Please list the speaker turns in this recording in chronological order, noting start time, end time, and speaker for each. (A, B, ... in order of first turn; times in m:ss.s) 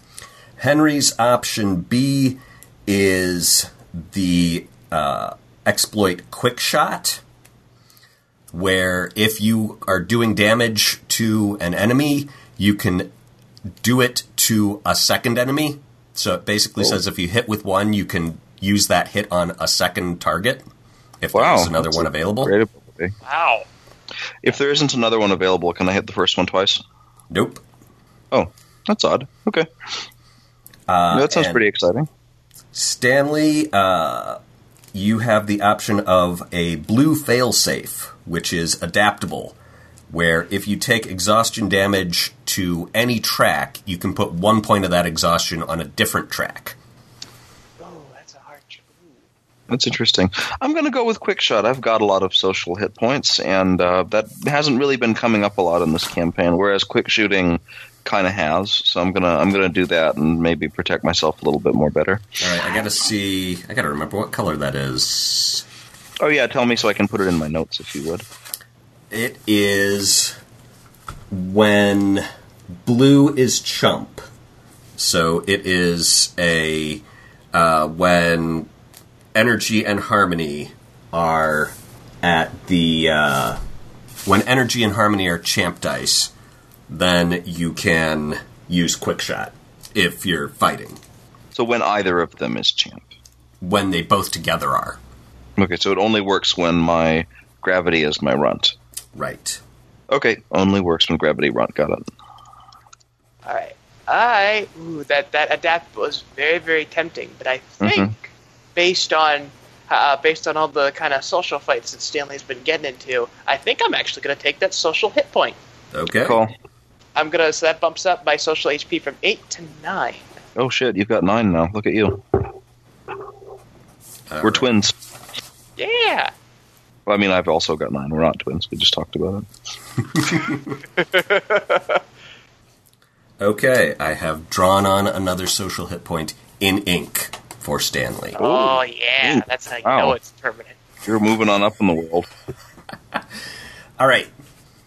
0:00.6-0:07.2 A
0:08.5-0:13.1 A
0:13.8-0:20.6 A
0:21.2-0:22.5 A
0:21.3-0:23.1 B
0:23.2-0:23.6 C
0:24.4-0:26.8 B
0:27.3-0:27.6 A
0:28.3-0:29.7 B
0:30.9-0:31.6 A
0:31.1-0:32.1 B
0:32.7-0:34.4 A
0:34.9-0:39.6 A
0:40.1-0:46.8 A
0:47.8-0:49.2 C
0:49.7-1:02.2 B
1:02.4-1:05.6 A
1:06.2-1:08.2 B
1:09.1-1:10.3 A
1:11.3-1:12.2 A
1:12.8-1:14.2 A
1:15.0-1:17.0 A
1:17.5-1:18.7 A
1:19.3-1:23.6 A
1:24.2-1:26.3 A
1:26.9-1:31.0 A
1:31.5-1:33.1 B
1:33.6-1:35.0 A
1:35.6-1:38.7 B
1:39.1-1:39.6 A
1:40.1-1:42.0 B
1:43.4-1:55.6 C
1:47.8-1:48.1 B
1:55.9-1:56.4 A
1:56.2-1:56.5 B
1:57.1-2:00.2 C
2:00.6-2:02.5 B
2:04.3-2:04.7 A
2:04.4-2:04.9 B
2:05.8-2:06.3 C
2:07.0-2:09.5 B
2:10.1-2:10.7 A
2:11.0-2:12.0 C
2:13.4-2:18.4 A
2:18.3-2:20.8 C
2:18.4-2:20.2 B
2:21.0-2:22.3 B
2:24.0-2:24.3 A